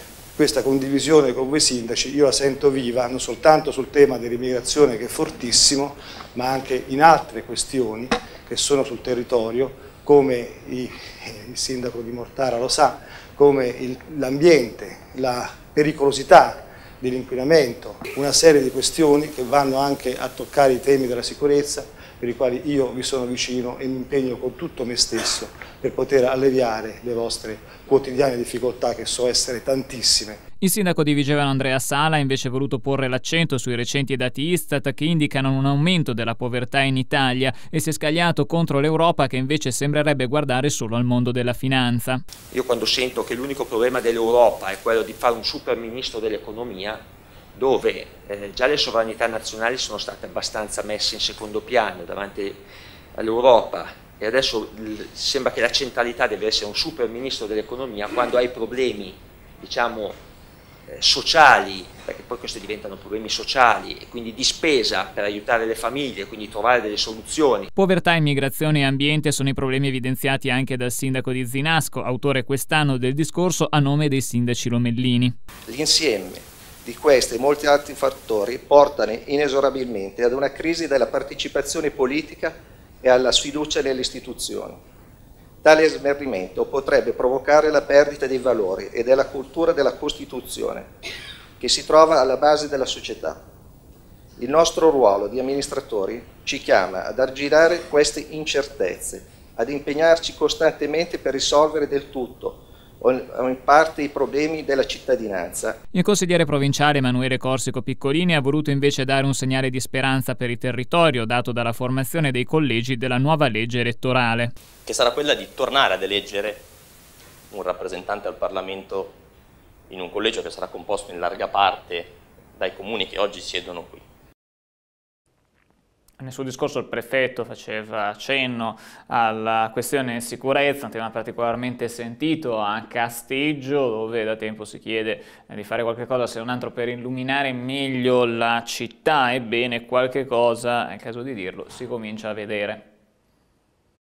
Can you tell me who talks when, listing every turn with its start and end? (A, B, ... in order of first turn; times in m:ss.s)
0:00.4-0:30.4 A
0:30.6-0:42.2 B
0:42.5-0:47.0 C
0:47.5-0:52.6 C
0:53.1-1:00.2 C
1:00.9-1:07.7 C
1:07.7-1:15.4 B
1:15.7-1:24.8 D
1:25.6-1:30.9 D
1:31.6-1:33.4 D
1:34.4-1:45.8 D
1:45.9-1:54.5 B
1:54.8-1:56.6 E
1:57.5-1:59.2 E
1:59.9-2:04.0 E
2:06.2-2:22.8 B